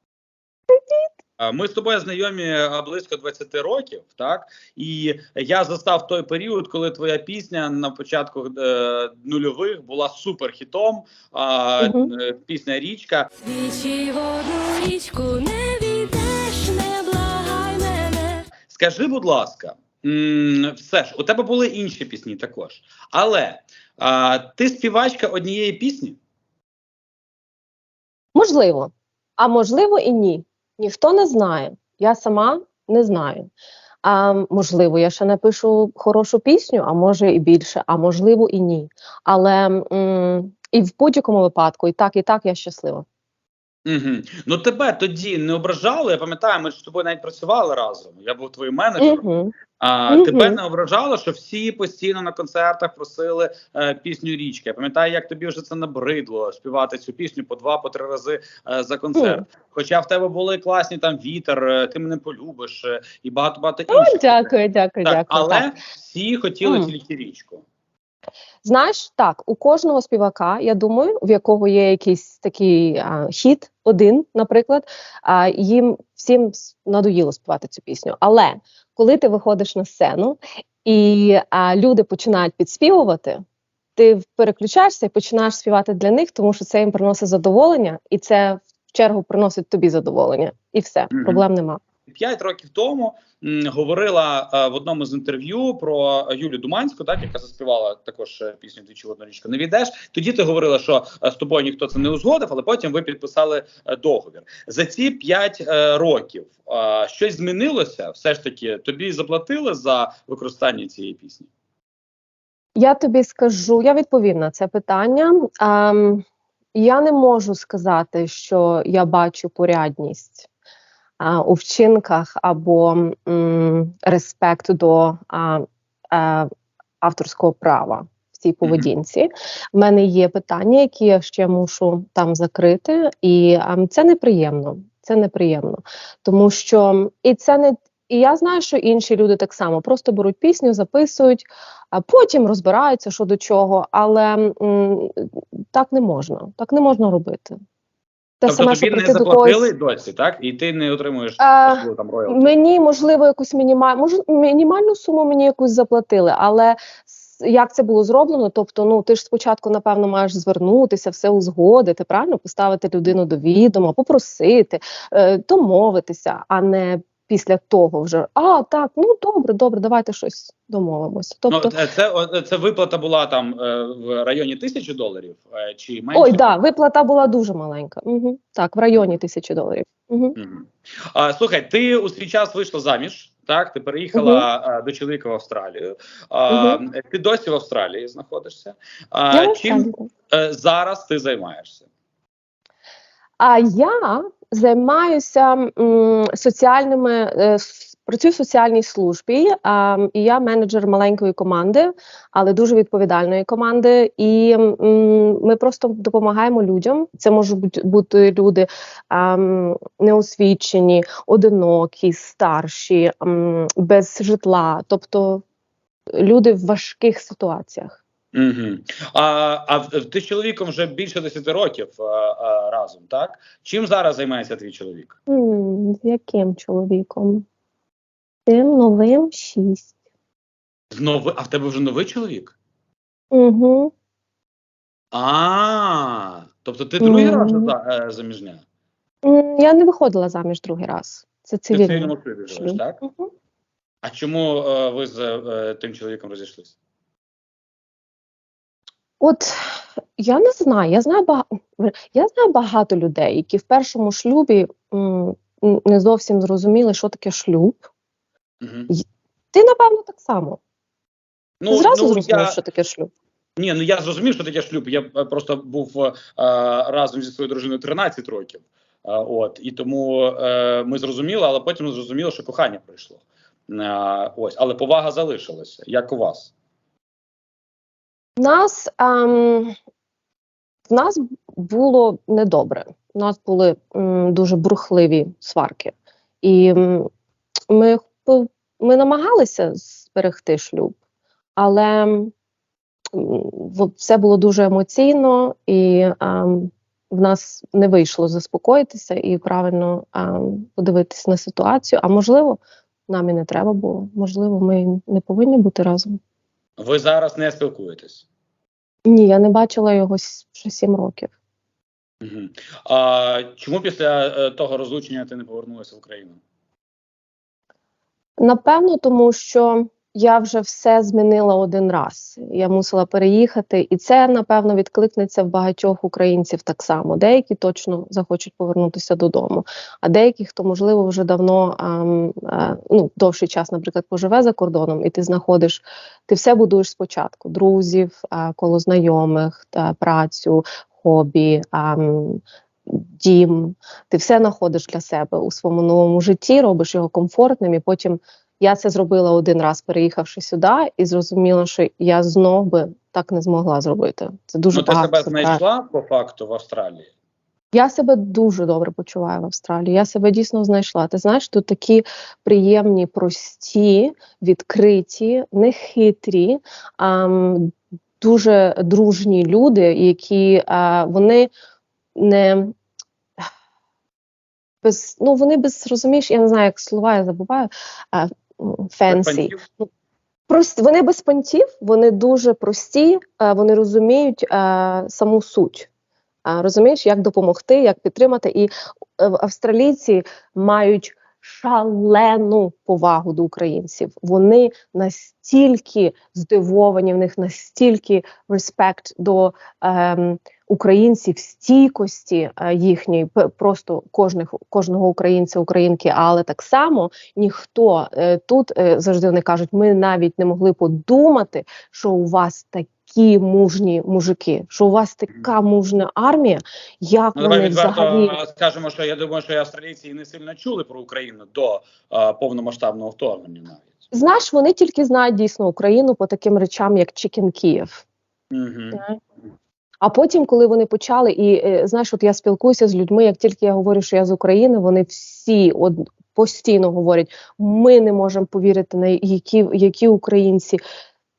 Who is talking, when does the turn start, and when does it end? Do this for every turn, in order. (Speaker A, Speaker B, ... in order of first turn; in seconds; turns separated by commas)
Speaker A: 0.7-1.1, Speaker B: 1.4-13.3, Speaker A: 11.8-12.1, Speaker C: 13.4-18.4, Speaker B: 18.7-26.2, Speaker A: 28.3-33.5, Speaker A: 34.0-43.0, Speaker B: 43.9-49.2, Speaker A: 49.0-49.5, Speaker B: 49.8-67.6, Speaker A: 50.1-50.6, Speaker A: 59.1-59.4, Speaker A: 63.9-65.7, Speaker A: 66.6-66.9, Speaker A: 68.6-83.4, Speaker A: 84.0-91.8, Speaker B: 91.1-91.4, Speaker B: 92.1-111.5, Speaker A: 112.8-120.5, Speaker A: 121.2-126.5, Speaker A: 127.0-147.5, Speaker B: 128.6-128.9, Speaker A: 148.4-149.7, Speaker B: 148.4-152.5, Speaker A: 151.4-171.8, Speaker B: 171.5-176.4, Speaker A: 176.1-180.3, Speaker B: 180.3-191.8, Speaker A: 184.1-184.4, Speaker A: 186.5-186.8, Speaker A: 189.3-190.1, Speaker A: 193.4-215.4, Speaker A: 216.2-218.0, Speaker B: 218.3-225.1, Speaker A: 225.3-227.4, Speaker A: 228.5-229.9, Speaker B: 230.9-232.5, Speaker A: 233.3-233.9, Speaker B: 235.1-238.6, Speaker A: 237.0-237.7, Speaker A: 239.2-243.3, Speaker B: 241.7-243.0, Speaker B: 244.0-246.7, Speaker A: 249.2-257.8, Speaker B: 258.6-258.9, Speaker A: 258.9-260.6, Speaker B: 261.6-262.6, Speaker A: 261.7-263.1, Speaker B: 263.6-276.5, Speaker A: 278.4-279.7, Speaker A: 280.9-287.1, Speaker A: 287.7-290.9, Speaker A: 291.6-292.3, Speaker A: 293.1-306.2, Speaker B: 306.8-308.2, Speaker A: 309.1-311.3, Speaker B: 312.2-316.4, Speaker A: 318.4-355.6, Speaker B: 354.7-357.1, Speaker A: 357.7-371.5, Speaker A: 372.1-372.7, Speaker A: 374.8-379.9, Speaker B: 379.1-379.6, Speaker A: 380.5-385.9, Speaker A: 386.4-418.4, Speaker B: 417.4-423.9, Speaker A: 424.1-428.0, Speaker B: 428.5-429.0, Speaker A: 428.9-429.2, Speaker A: 430.0-440.8